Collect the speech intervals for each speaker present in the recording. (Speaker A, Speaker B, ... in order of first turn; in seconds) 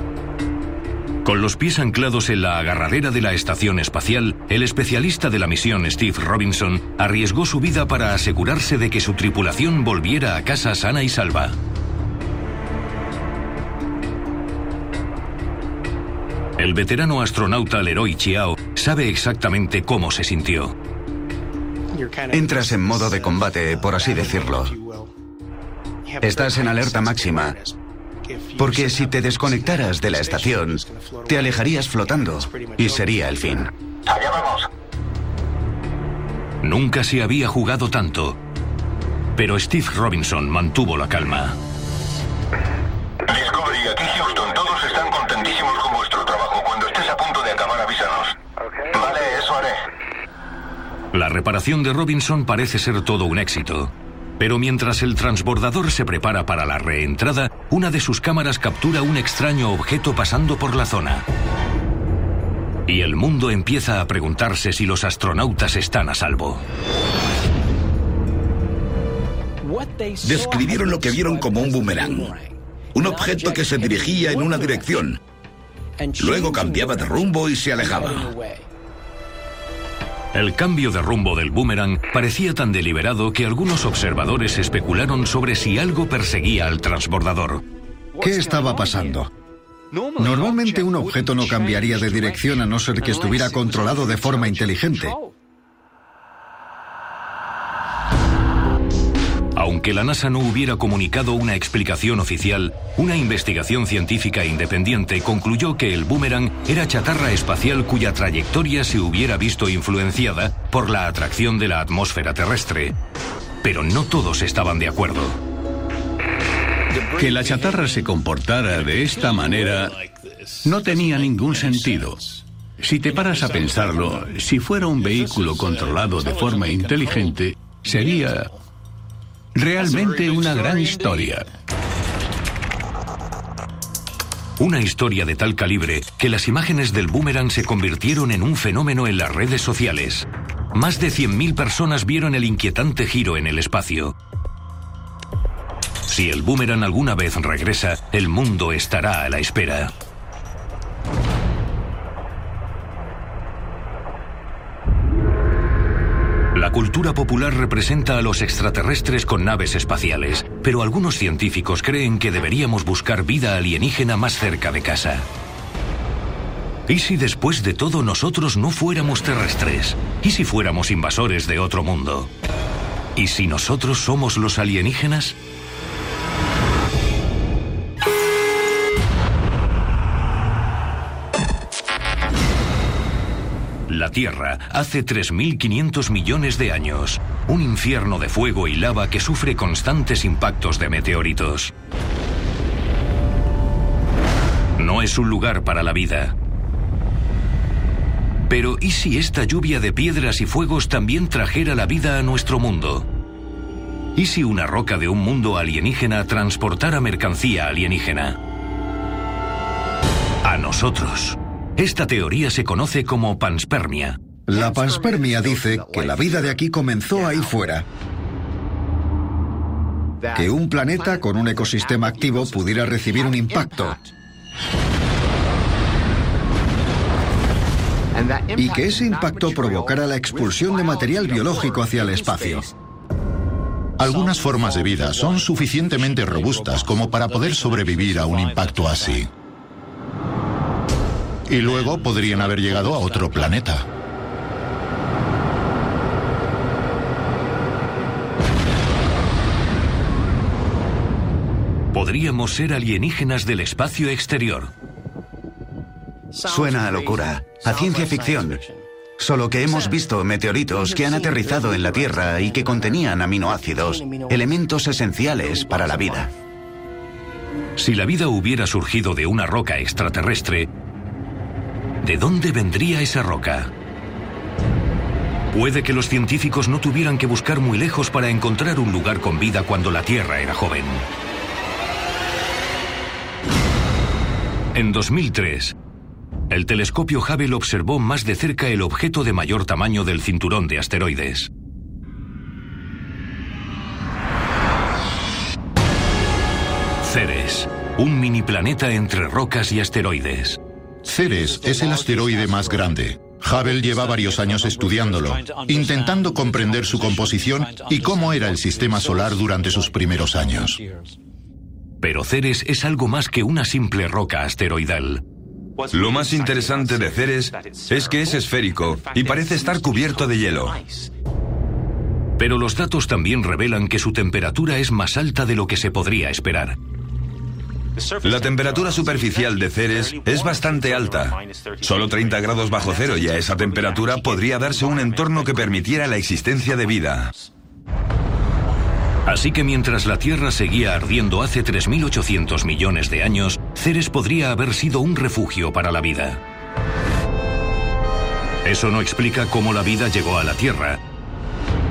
Speaker A: 1.2-11.6, 16.6-20.7, 36.6-38.4, 39.4-41.6, 51.1-61.2, 62.9-66.6, 80.3-87.6, 99.5-112.9, 113.6-115.4, 134.6-144.1, 146.1-149.9, 156.5-165.3, 166.9-172.3, 173.2-175.3, 183.9-191.7, 194.8-196.3, 198.5-203.1, 204.2-208.4, 210.4-214.2, 251.9-254.7, 267.8-270.7, 272.0-273.7, 275.5-281.0, 284.7-285.7, 286.5-291.5, 297.0-300.6, 312.0-315.2, 322.4-326.8, 339.2-346.4, 348.6-351.0
Speaker B: 22.3-24.7, 26.2-27.6, 28.6-33.7, 256.4-258.6, 259.2-266.3
Speaker C: 34.0-34.7, 43.2-48.4, 48.9-49.9
Speaker D: 70.2-72.3, 72.9-75.2, 76.2-78.3
Speaker E: 88.2-89.3, 90.2-95.2, 214.5-217.8, 220.3-224.0, 228.5-232.7
Speaker F: 117.2-120.0, 120.6-128.5, 129.5-131.5
Speaker G: 234.0-239.3, 241.5-243.8, 301.0-310.8
Speaker H: 315.9-320.8, 328.2-337.3